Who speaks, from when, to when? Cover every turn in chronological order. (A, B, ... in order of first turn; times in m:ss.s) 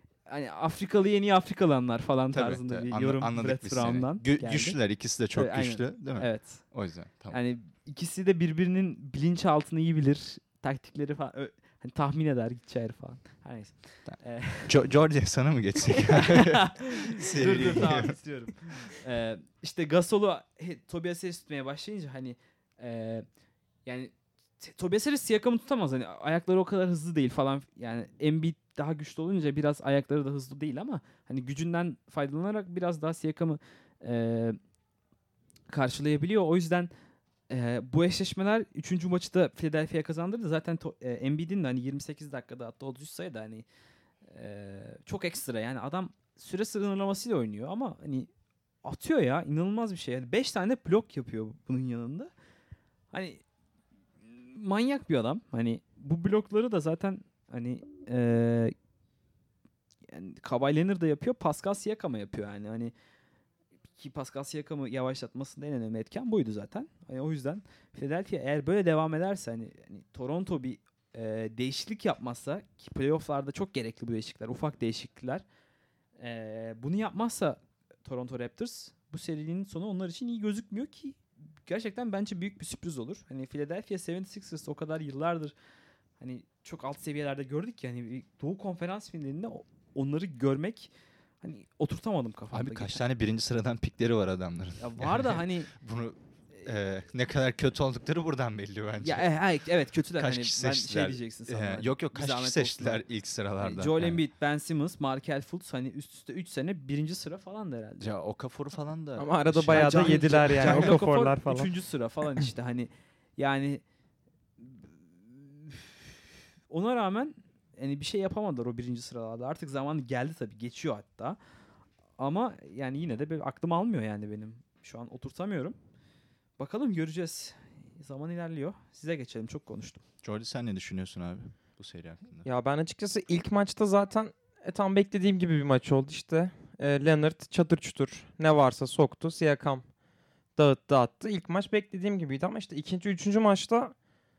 0:00.2-0:04.8 A
0:02.3-0:07.4 B
0:05.3-0:06.6 A
0:07.3-0:14.8 A
0:14.0-0:18.1 B
0:16.0-0:23.2 A
0:23.8-0:34.6 A
0:35.7-0:36.9 A
0:37.5-0:43.6 A
0:44.2-0:48.3 A
0:48.8-0:52.3 A
0:53.1-0:53.4 A
0:54.3-0:58.8 A
1:00.1-1:02.9 A
1:04.0-1:15.4 A
1:16.2-1:25.5 A
1:26.2-1:33.0 A
1:32.5-1:39.2 B
1:34.8-1:35.7 A
1:39.0-1:43.0 A
1:40.2-1:44.2 B
1:43.6-1:48.1 A
1:48.0-1:51.0 B
1:49.2-1:51.7 C
1:49.7-1:53.8 A
1:54.6-1:56.1 A
1:56.7-2:01.4 A
2:02.2-2:05.8 A
2:06.6-2:10.0 A
2:10.2-2:12.5 B
2:12.4-2:19.8 C
2:20.6-2:23.9 C